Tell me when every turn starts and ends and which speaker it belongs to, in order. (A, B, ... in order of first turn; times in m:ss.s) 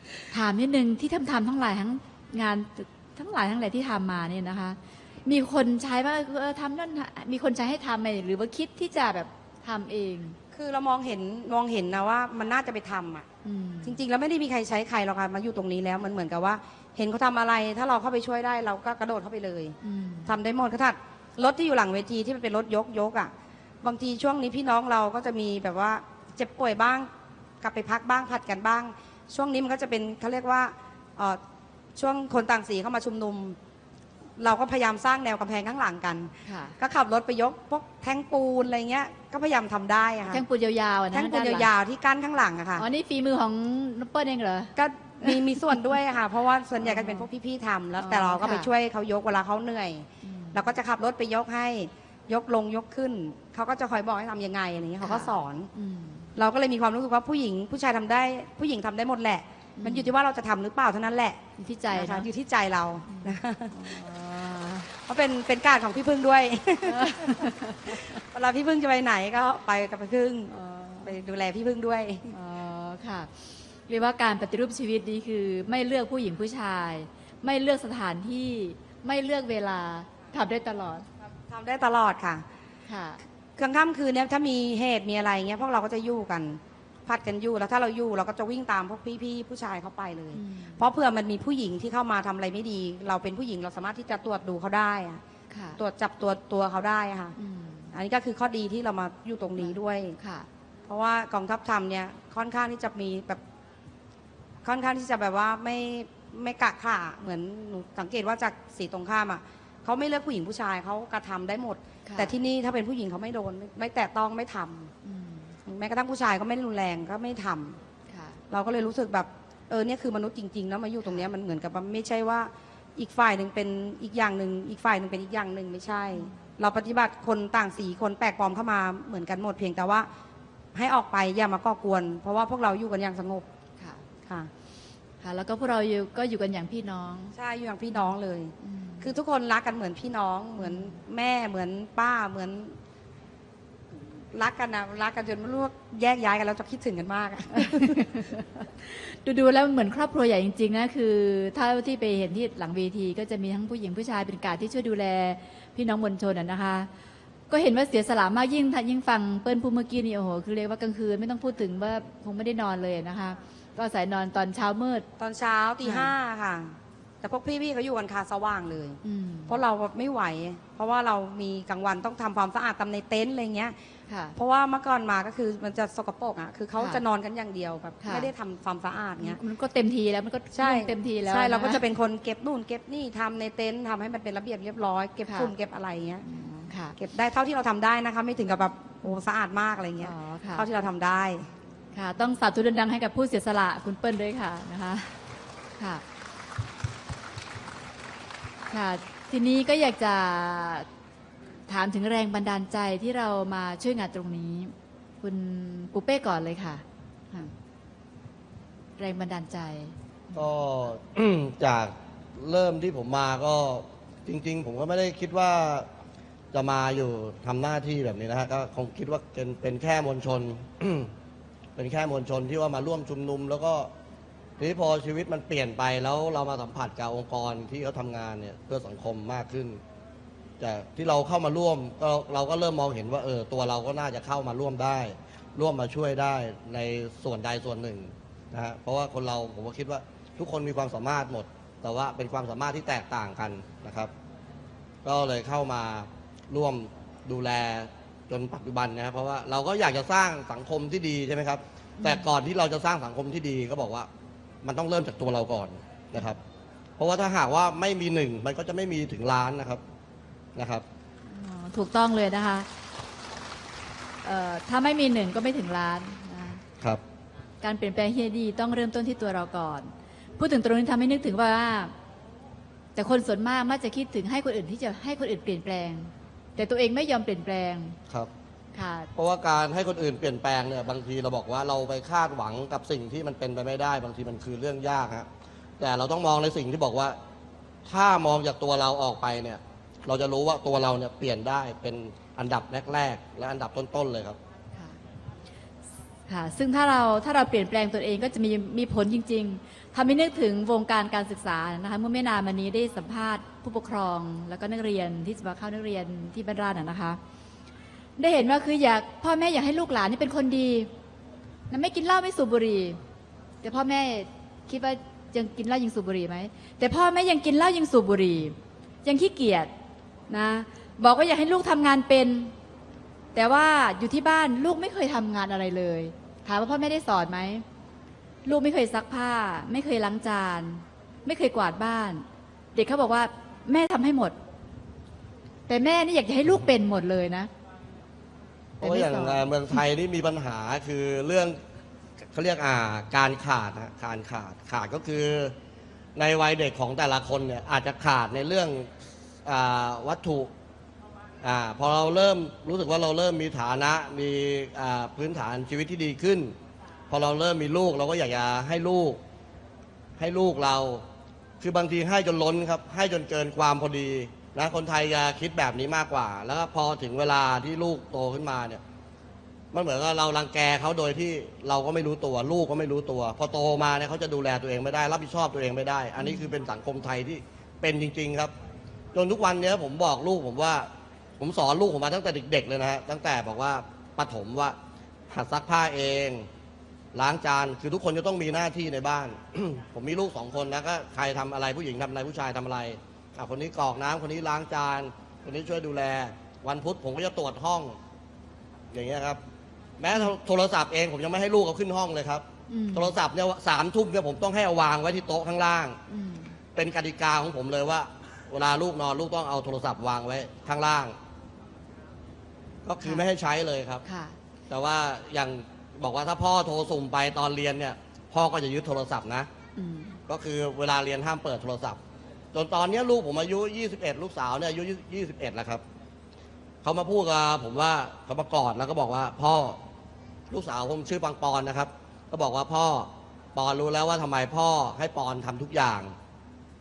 0:00.3-0:10.4 A
0:10.5-0:13.3 B
0:13.4-0:14.0 A
0:13.8-0:27.1 B
0:19.8-0:20.3 A
0:27.6-0:31.4 B
0:32.0-0:33.6 B
0:34.4-0:40.4 B
0:36.4-0:36.8 A
0:40.3-0:41.7 A
0:41.1-0:42.8 B
0:42.8-0:45.4 A
0:44.8-0:55.7 B
0:46.8-0:47.3 A
0:48.0-0:48.7 A
0:50.2-0:50.6 A
0:55.0-0:56.3 A
0:56.4-1:01.4 B
0:59.8-1:00.1 A
1:01.6-1:02.3 A
1:01.9-1:03.8 B
1:03.1-1:04.9 A
1:04.9-1:10.5 B
1:06.8-1:08.2 A
1:10.5-1:11.1 A
1:11.0-1:12.3 B
1:12.3-1:21.1 A
1:21.5-1:22.4 B
1:22.9-1:23.2 A
1:23.6-1:35.2 B
1:30.3-1:30.8 A
1:35.5-1:35.8 A
1:35.8-1:37.4 B
1:37.4-1:38.0 A
1:37.9-1:40.2 B
1:39.6-1:40.5 A
1:40.9-1:43.4 B
1:44.6-1:54.9 B
1:52.0-1:52.3 A
1:55.0-1:55.6 A
1:55.7-1:57.8 B
1:58.1-1:58.4 A
1:58.5-2:10.1 B
2:06.1-2:06.4 A
2:10.7-2:13.5 B
2:14.2-2:14.5 B
2:15.2-2:17.3 A
2:17.4-2:22.8 B
2:17.9-2:19.1 A
2:20.6-2:21.0 A
2:24.3-2:28.1 B
2:27.6-2:36.9 A
2:37.5-2:45.1 A
2:45.2-2:53.8 B
2:45.8-2:46.1 A
2:49.0-2:49.6 A
2:54.1-2:54.4 A
2:54.4-2:59.4 B
2:56.8-2:57.0 A
2:58.0-2:58.3 A
2:59.2-3:01.8 A
3:00.5-3:06.3 B
3:05.2-3:05.5 A
3:06.2-3:07.0 A
3:07.0-3:11.5 B
3:10.0-3:10.7 A
3:11.9-3:15.2 A
3:15.8-3:16.0 A
3:18.7-3:20.9 A
3:21.7-3:27.5 A
3:29.0-3:30.5 A
3:30.4-3:35.9 C
3:36.5-3:41.1 C
3:41.8-3:43.9 C
3:44.6-3:49.8 C
3:50.6-4:04.1 C
4:05.0-4:14.1 C
4:12.0-4:12.3 A
4:14.6-4:16.4 C
4:17.0-4:19.8 C
4:20.6-4:20.8 C
4:21.3-4:22.7 A
4:24.2-4:26.6 A
4:27.6-4:31.9 A
4:33.0-4:38.0 A
4:38.7-4:39.1 A
4:39.2-4:45.3 C
4:45.8-4:47.2 C
4:47.9-4:54.4 C
4:56.3-5:07.2 A
5:08.2-5:10.9 A
5:11.7-5:13.0 A
5:13.6-5:19.7 A
5:20.3-5:22.5 A
5:23.3-5:27.6 A
5:28.4-5:34.4 A
5:35.7-5:37.5 A
5:38.8-5:39.8 A
5:38.8-5:41.6 C
5:42.3-5:45.5 C
5:46.2-5:48.9 C
5:49.4-5:50.5 C
5:51.4-5:56.5 C
5:57.1-5:59.2 C
6:00.2-6:01.0 C
6:01.6-6:08.8 C
6:09.7-6:18.5 C
6:16.2-6:16.5 A
6:19.1-6:20.9 C
6:21.4-6:24.8 C
6:25.3-6:26.5 C
6:27.1-6:38.0 C
6:38.9-6:39.4 C
6:40.0-6:46.0 C
6:42.7-6:43.2 A
6:46.1-6:46.6 A
6:46.8-6:51.2 C
6:52.8-6:54.0 C
6:54.0-6:54.4 A
6:54.7-6:59.5 C
6:59.8-7:00.2 A
7:00.3-7:02.0 C
7:02.5-7:05.8 C
7:06.8-7:09.8 C
7:10.5-7:16.1 C